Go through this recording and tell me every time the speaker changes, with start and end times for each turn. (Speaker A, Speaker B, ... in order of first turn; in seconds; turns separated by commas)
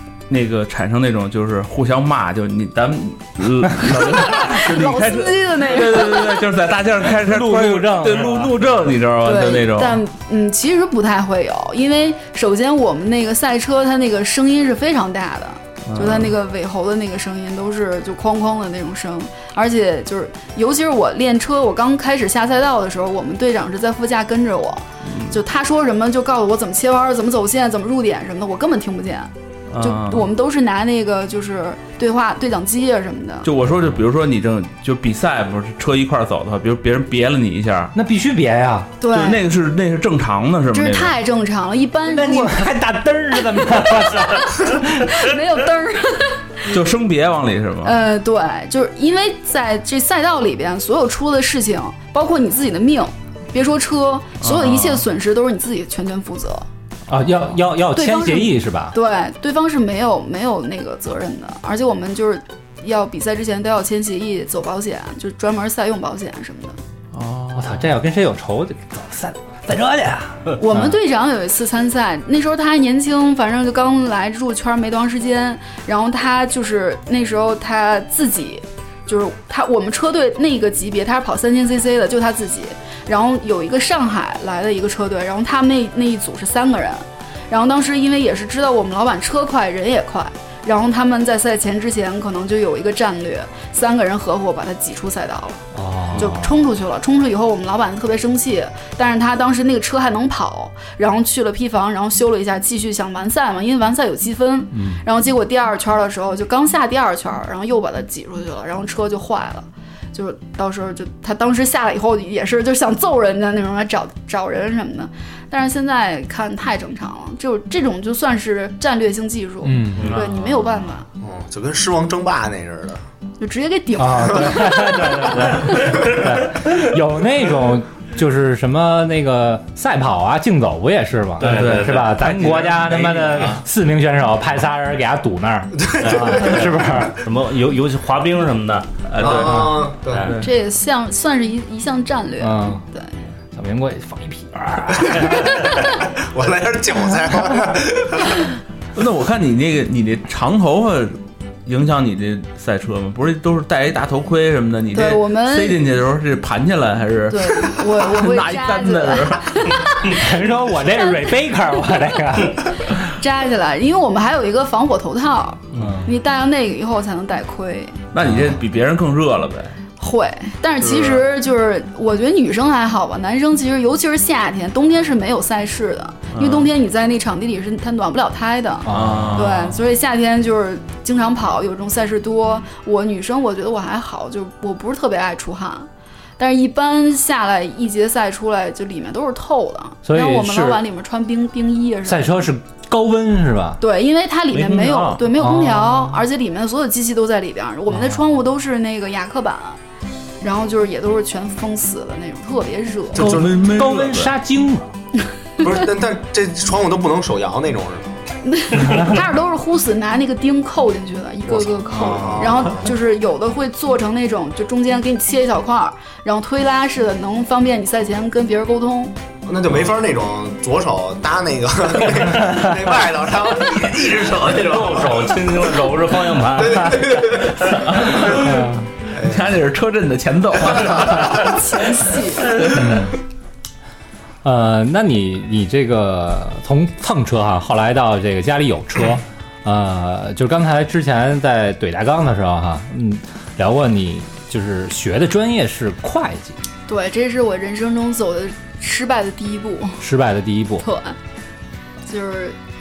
Speaker A: 0.3-10.0, Speaker B: 4.0-6.5, Speaker C: 7.2-8.5, Speaker B: 9.2-33.5, Speaker A: 15.9-16.4, Speaker A: 25.0-25.4, Speaker A: 29.7-30.3, Speaker A: 33.4-37.9, Speaker C: 38.0-39.0, Speaker B: 39.0-39.4, Speaker A: 39.1-41.1, Speaker B: 40.7-42.7, Speaker C: 42.1-45.4, Speaker B: 44.4-46.7, Speaker A: 46.7-48.0, Speaker B: 47.8-56.7, Speaker A: 54.4-55.0, Speaker C: 57.1-59.0, Speaker B: 57.9-66.8, Speaker A: 67.1-67.8, Speaker C: 67.5-71.0, Speaker B: 70.6-95.6, Speaker C: 95.7-96.5, Speaker B: 96.2-121.1, Speaker C: 104.7-105.0, Speaker C: 119.6-120.2, Speaker A: 120.0-120.7, Speaker D: 121.2-123.0, Speaker B: 123.4-126.0, Speaker C: 124.0-137.2, Speaker A: 131.4-133.6, Speaker E: 131.4-132.1, Speaker D: 135.8-136.8, Speaker E: 136.0-139.5, Speaker A: 139.1-140.5, Speaker D: 139.2-140.4, Speaker E: 140.1-140.4, Speaker B: 140.4-143.2, Speaker C: 142.4-142.8, Speaker C: 143.5-145.8, Speaker B: 145.4-145.8, Speaker D: 145.9-148.4, Speaker A: 148.9-159.8, Speaker B: 154.9-155.8, Speaker B: 157.3-160.3, Speaker C: 160.1-163.1, Speaker B: 160.9-161.2, Speaker B: 163.0-168.0, Speaker C: 165.7-166.1, Speaker A: 168.1-169.8, Speaker C: 168.2-168.6, Speaker B: 170.0-192.5, Speaker A: 170.8-171.2, Speaker A: 176.3-176.7, Speaker C: 178.9-179.6, Speaker A: 178.9-179.8, Speaker C: 190.1-190.8, Speaker C: 192.1-193.8, Speaker B: 193.8-199.8, Speaker A: 194.5-195.2, Speaker C: 195.3-196.3, Speaker C: 197.9-198.2, Speaker B: 200.4-203.3, Speaker D: 203.2-203.5, Speaker A: 203.2-204.3, Speaker C: 203.2-204.9, Speaker D: 205.6-208.2, Speaker B: 208.4-219.2, Speaker C: 208.8-209.2, Speaker D: 211.5-212.8, Speaker D: 219.5-225.4, Speaker E: 224.5-227.1, Speaker D: 226.6-228.5, Speaker A: 227.8-228.6, Speaker C: 228.3-228.9, Speaker D: 229.1-229.5, Speaker A: 229.2-231.6, Speaker D: 230.8-231.2, Speaker B: 231.2-232.6, Speaker A: 232.4-233.0, Speaker C: 232.7-233.2, Speaker C: 234.4-246.6, Speaker B: 246.9-250.0, Speaker C: 250.0-250.8, Speaker B: 250.8-251.2, Speaker B: 252.1-252.6